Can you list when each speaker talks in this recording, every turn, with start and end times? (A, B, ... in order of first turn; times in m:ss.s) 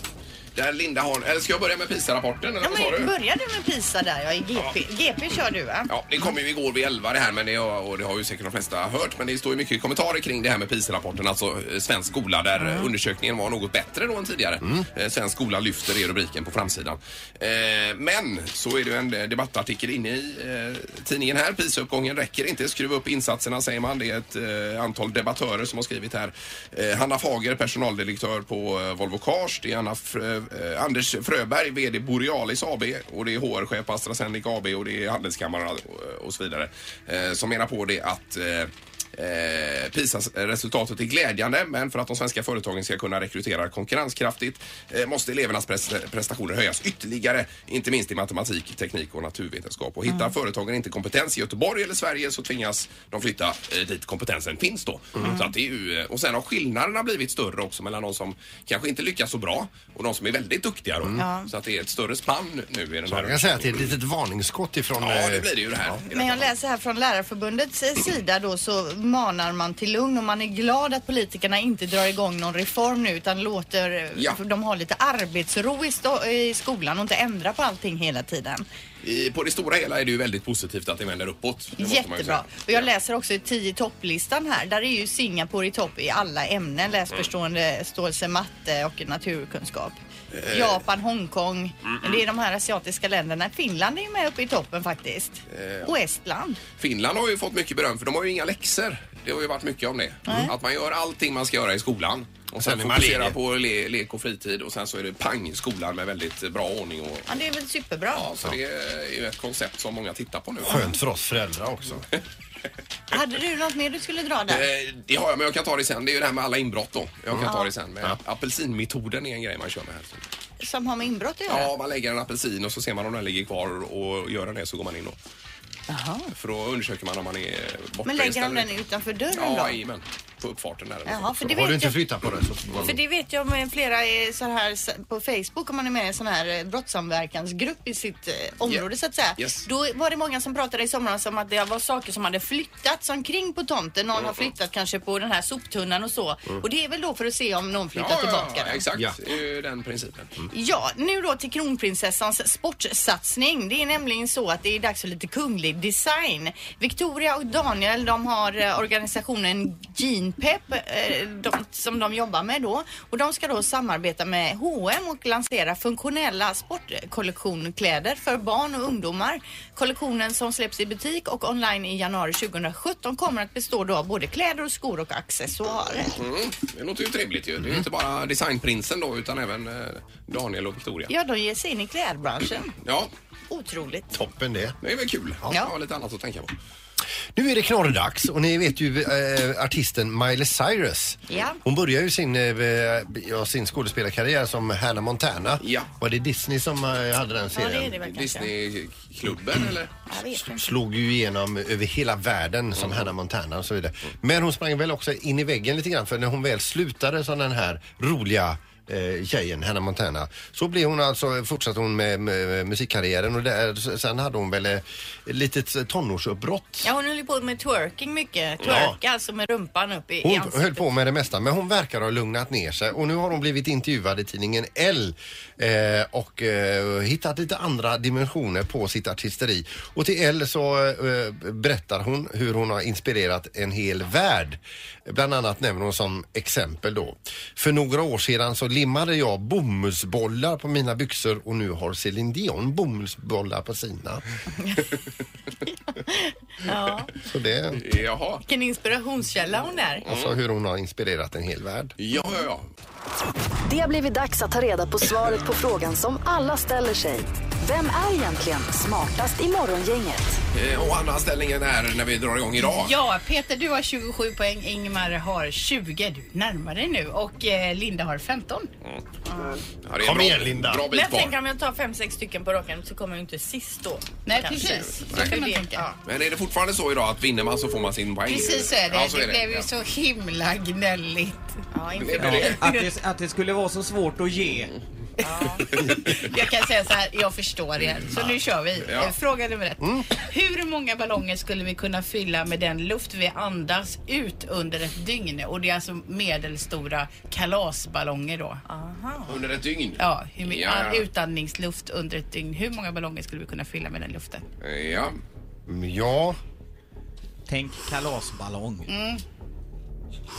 0:00.5-0:03.1 A
0:02.6-0:05.9 B
0:05.9-1:03.9 A
0:12.6-0:12.9 B
0:50.1-0:50.3 B
0:55.2-0:55.5 B
1:01.2-1:01.5 B
1:03.1-1:05.9 C
1:05.0-1:06.5 A
1:06.1-1:18.6 B
1:19.0-1:22.9 A
1:21.8-1:36.6 B
1:30.3-1:30.8 A
1:31.9-1:32.2 A
1:35.5-1:35.9 A
1:36.8-1:47.4 A
1:40.3-1:40.5 B
1:42.6-1:43.4 C
1:47.3-1:48.2 B
1:48.1-1:50.9 A
1:50.6-1:52.1 C
1:53.1-1:54.6 B
1:54.5-2:00.2 A
1:57.3-1:58.2 C
1:57.4-1:57.7 B
2:00.6-2:01.7 B
2:01.5-2:05.2 A
2:05.9-2:06.3 B
2:06.3-2:08.7 A
2:08.0-2:09.8 B
2:09.3-2:11.3 A
2:11.0-2:12.0 B
2:11.4-2:13.0 C
2:12.8-2:28.8 B
2:19.4-2:19.6 A
2:24.2-2:24.5 A
2:27.9-2:30.3 A
2:30.5-2:56.2 B
2:56.1-3:01.1 A
3:01.1-3:02.7 B
3:02.8-3:03.1 A
3:03.5-3:04.1 B
3:04.1-3:04.8 C
3:04.8-3:06.5 A
3:07.3-3:18.0 C
3:11.3-3:11.6 B
3:15.6-3:15.9 A
3:17.5-3:18.5 B
3:18.0-3:19.9 A
3:20.1-3:20.7 B
3:20.2-3:36.9 C
3:22.8-3:23.1 A
3:36.8-3:40.8 B
3:38.6-3:39.0 C
3:40.2-4:04.2 C
4:04.6-4:04.9 B
4:06.0-4:07.1 B
4:07.2-4:07.8 C
4:07.7-4:08.4 A
4:08.4-4:10.0 B
4:10.0-4:12.0 C
4:10.0-4:10.3 A
4:12.0-4:12.6 A
4:13.7-4:20.4 D
4:20.5-4:23.0 A
4:22.6-4:28.7 E
4:29.3-4:29.6 B
4:29.8-4:31.3 A
4:30.0-4:30.8 C
4:30.9-4:36.0 B
4:34.2-4:35.8 E
4:34.7-4:35.3 A
4:36.0-4:39.7 A
4:38.2-4:41.6 E
4:41.7-4:42.6 B
4:42.0-4:42.6 A
4:42.2-4:44.7 F
4:42.6-4:42.9 E
4:45.2-4:45.7 B
4:45.8-4:58.6 E
4:48.1-4:49.1 A
4:49.8-4:50.0 C
4:58.6-4:59.4 B
4:59.3-5:01.0 A
5:00.0-5:04.4 E
5:04.6-5:05.2 A
5:05.7-5:06.4 C
5:07.5-5:08.9 F
5:08.9-5:09.2 E